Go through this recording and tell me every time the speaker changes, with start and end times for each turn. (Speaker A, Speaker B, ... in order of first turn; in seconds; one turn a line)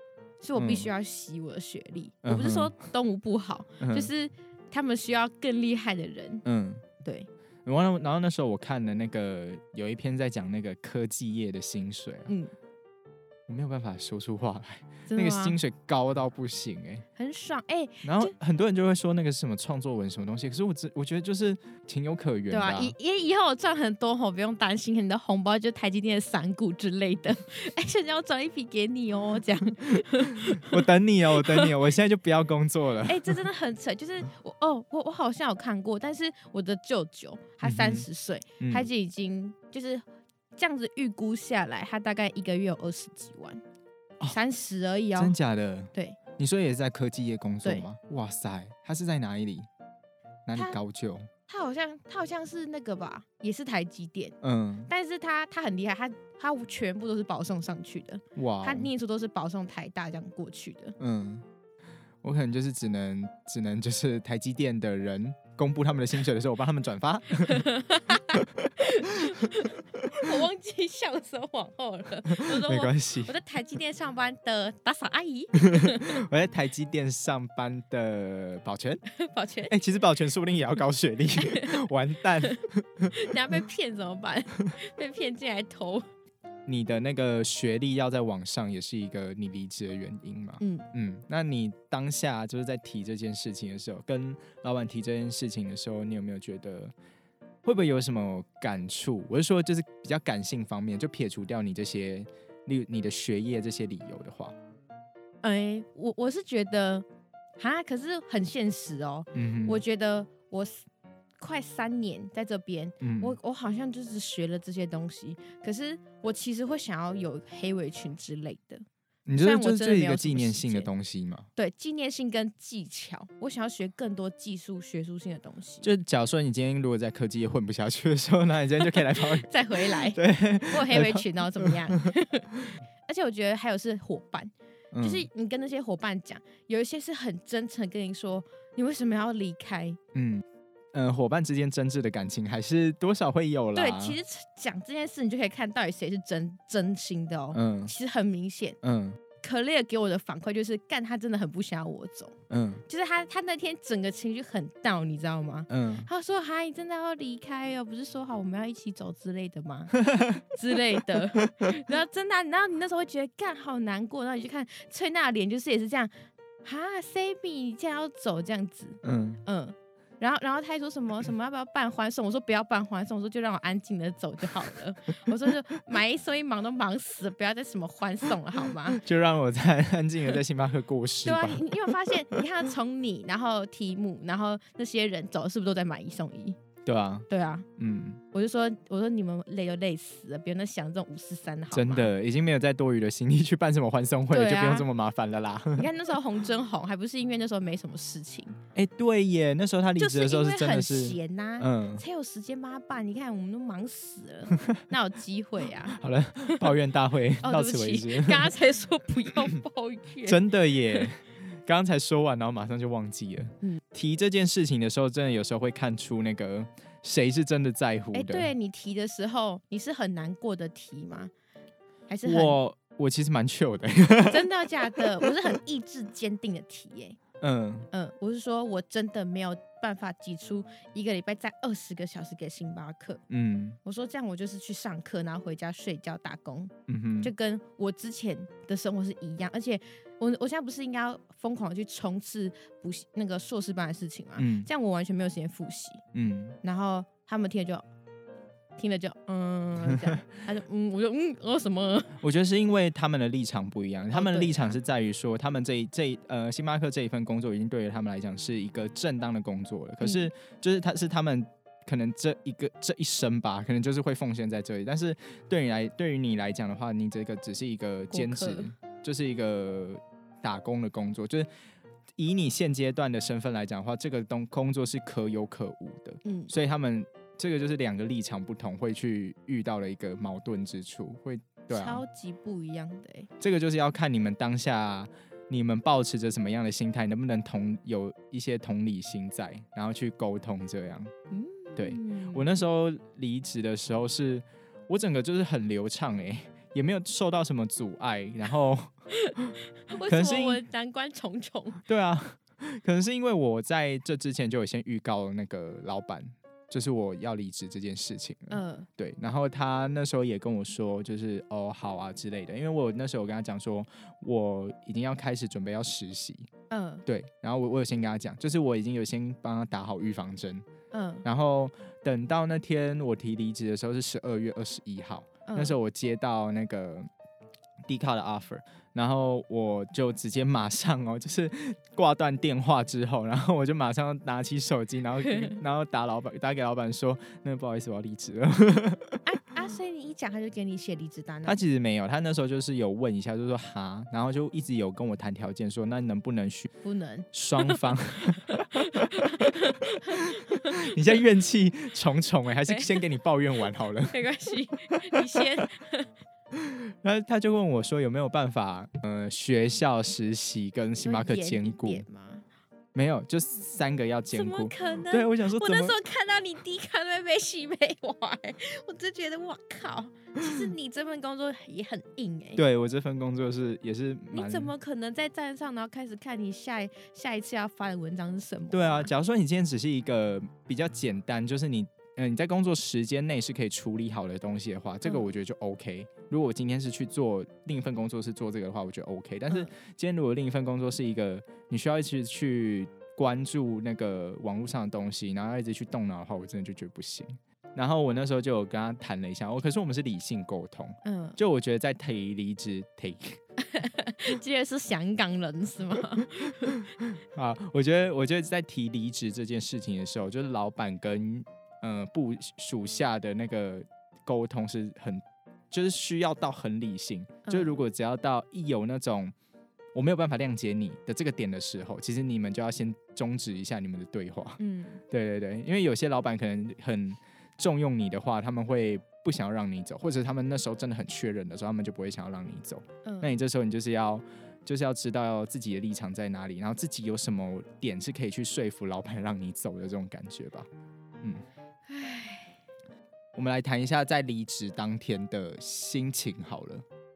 Speaker A: 0.4-6.4
Speaker B: 0.6-0.9
Speaker B: 2.2-2.7
Speaker B: 3.8-4.1
Speaker B: 6.5-6.9
Speaker A: 7.0-7.3
Speaker B: 7.7-12.3
Speaker B: 13.5-17.1
Speaker A: 15.1-15.6
Speaker A: 17.2-18.3
Speaker B: 18.0-23.0
Speaker A: 22.5-31.7
Speaker B: 30.2-33.4
Speaker A: 33.0-40.0
Speaker B: 37.6-38.1
Speaker B: 38.6-38.9
Speaker A: 40.6-43.6
Speaker A: 44.3-45.4
Speaker B: 45.1-49.7
Speaker A: 45.9-46.2
Speaker B: 50.5-51.3
Speaker A: 51.5-54.4
Speaker B: 54.4-54.9
Speaker A: 54.9-61.0
Speaker B: 58.4-58.9
Speaker B: 61.0-61.5
Speaker B: 62.2-67.7
Speaker A: 67.5-76.2
Speaker B: 68.3-69.3
Speaker B: 72.3-73.3
Speaker B: 75.6-79.0
Speaker A: 79.1-79.8
Speaker B: 79.7-83.2
Speaker A: 81.4-81.8
Speaker A: 83.1-86.1
Speaker B: 86.7-96.9
Speaker A: 90.6-90.9
Speaker B: 97.6-104.5
Speaker A: 105.4-107.1
Speaker A: 107.6-110.9
Speaker B: 109.3-109.8
Speaker A: 111.4-118.8
Speaker B: 113.0-113.3
Speaker B: 119.3-121.5
Speaker A: 119.4-120.9
Speaker A: 121.6-125.9
Speaker B: 125.8-132.1
Speaker A: 128.8-140.0
Speaker B: 134.9-135.3
Speaker B: 140.1-144.2
Speaker A: 143.8-148.8
Speaker B: 147.5-147.9
Speaker B: 148.8-149.2
Speaker A: 149.4-160.0
Speaker B: 152.5-152.8
Speaker B: 155.7-156.1
Speaker B: 159.9-160.5
Speaker A: 160.5-179.0
Speaker B: 161.3-161.7
Speaker B: 169.0-169.4
Speaker B: 178.9-181.9
Speaker A: 181.2-186.6
Speaker B: 186.9-188.2
Speaker A: 187.3-187.7
Speaker A: 188.3-192.1
Speaker B: 191.7-195.9
Speaker A: 194.3-194.9
Speaker A: 195.8-198.6
Speaker B: 198.8-202.0
Speaker A: 200.0-206.8
Speaker B: 204.5-204.8
Speaker B: 205.9-208.5
Speaker A: 207.4-210.4
Speaker B: 210.2-218.5
Speaker A: 218.1-221.3
Speaker A: 222.1-222.6
Speaker B: 222.2-225.3
Speaker A: 224.3-227.2
Speaker B: 227.4-227.9
Speaker A: 227.9-233.2
Speaker B: 233.3-233.8
Speaker A: 233.8-246.0
Speaker B: 236.9-237.3
Speaker B: 244.4-244.7
Speaker B: 246.1-246.6
Speaker A: 246.6-247.8
Speaker A: 248.8-252.2
Speaker B: 249.9-250.3
Speaker B: 252.2-271.5
Speaker A: 254.1-254.8
Speaker A: 260.0-260.3
Speaker A: 268.1-268.7
Speaker B: 272.2-282.0
Speaker A: 276.2-276.5
Speaker A: 281.7-283.3
Speaker B: 283.4-291.1
Speaker A: 291.3-292.6
Speaker B: 291.8-300.6
Speaker A: 299.2-301.8
Speaker B: 301.9-316.5
Speaker A: 308.5-308.9
Speaker A: 316.7-317.1
Speaker B: 317.1-320.7
Speaker A: 320.9-321.2
Speaker B: 321.2-327.1
Speaker A: 325.5-325.8
Speaker B: 327.9-339.1
Speaker A: 335.3-335.6
Speaker A: 339.2-341.6
Speaker B: 341.4-346.7
Speaker A: 346.8-351.0
Speaker B: 347.3-354.2
Speaker A: 352.7-353.0
Speaker A: 354.1-356.1
Speaker B: 354.9-355.6
Speaker B: 356.5-362.1
Speaker A: 361.0-362.5
Speaker B: 362.9-366.0
Speaker A: 364.3-372.6
Speaker B: 372.6-374.7
Speaker A: 374.3-379.1
Speaker B: 378.7-403.4
Speaker A: 385.0-385.3
Speaker A: 401.1-401.4
Speaker A: 403.6-406.9
Speaker B: 406.6-419.3
Speaker A: 417.5-417.8
Speaker B: 419.9-424.6
Speaker A: 424.6-425.0
Speaker B: 425.1-440.7
Speaker A: 433.1-433.3
Speaker A: 441.9-442.6
Speaker B: 443.4-446.9